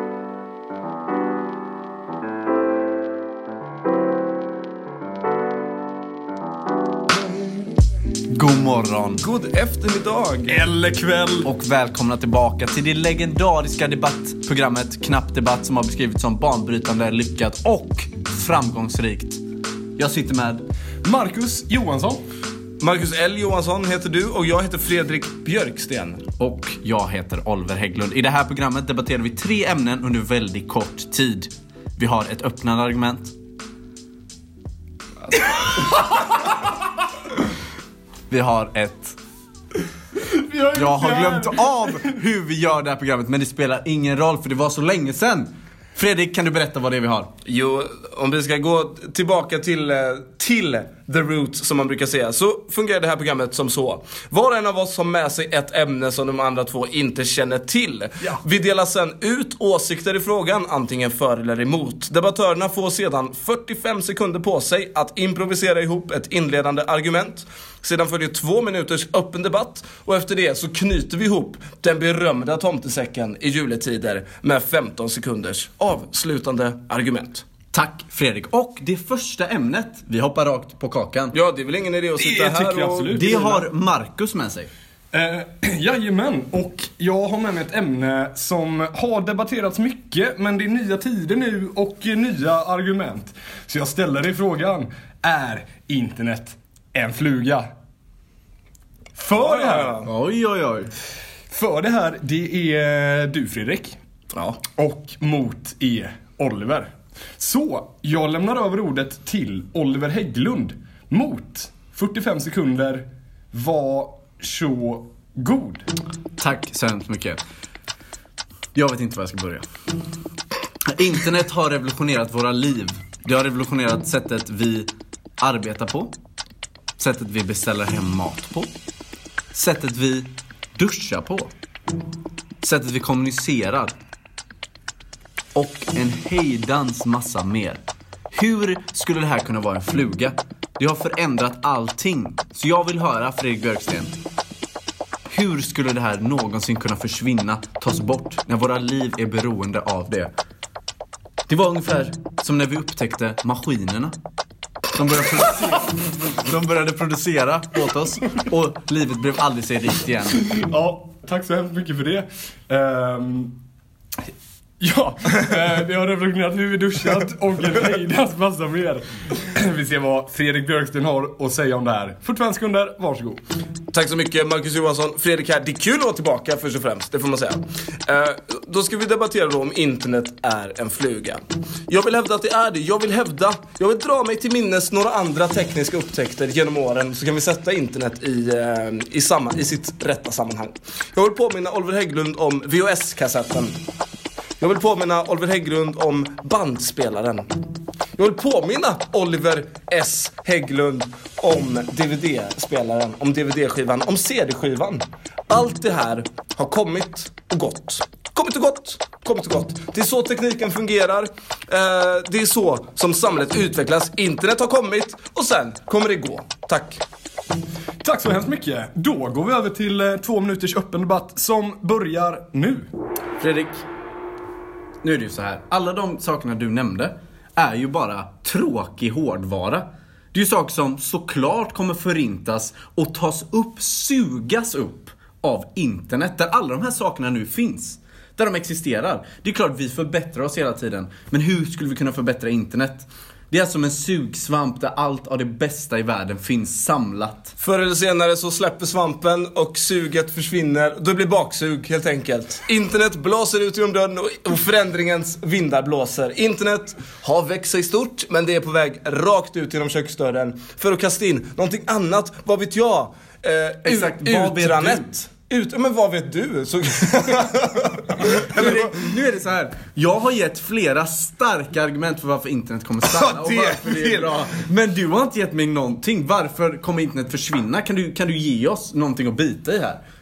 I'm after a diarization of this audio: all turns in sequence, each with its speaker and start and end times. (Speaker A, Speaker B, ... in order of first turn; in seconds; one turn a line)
Speaker A: 8.3-9.2
Speaker B: 9.2-10.6
Speaker C: 10.5-11.5
Speaker A: 11.4-19.4
Speaker A: 20.0-20.6
Speaker C: 21.0-22.2
Speaker B: 22.8-26.3
Speaker A: 26.4-33.4
Speaker A: 38.3-39.2
Speaker C: 40.3-41.8
Speaker A: 40.7-47.3
Speaker B: 47.5-77.5
Speaker A: 77.7-81.3
Speaker B: 81.3-83.5
Speaker C: 82.2-83.6
Speaker A: 83.1-84.7
Speaker C: 85.1-97.7
Speaker C: 99.2-100.0
Speaker B: 99.3-100.1
Speaker A: 100.0-100.9
Speaker C: 101.5-104.0
Speaker B: 104.3-104.6
Speaker C: 104.8-115.9
Speaker A: 116.4-117.4
Speaker A: 118.7-119.7
Speaker A: 120.9-126.1
Speaker A: 127.0-128.7
Speaker A: 129.5-131.5
Speaker A: 132.6-134.0
Speaker A: 135.6-137.8
Speaker A: 138.3-144.2
Speaker A: 145.3-150.3
Speaker A: 151.5-154.2
Speaker A: 154.9-160.4
Speaker C: 160.5-163.6
Speaker C: 164.8-173.4
Speaker B: 173.9-193.8
Speaker B: 194.6-197.5
Speaker B: 198.2-217.0
Speaker C: 218.0-222.9
Speaker A: 223.4-223.8
Speaker A: 225.0-247.6
Speaker B: 247.6-268.9
Speaker A: 263.8-265.1
Speaker A: 268.2-280.0
Speaker B: 273.1-274.5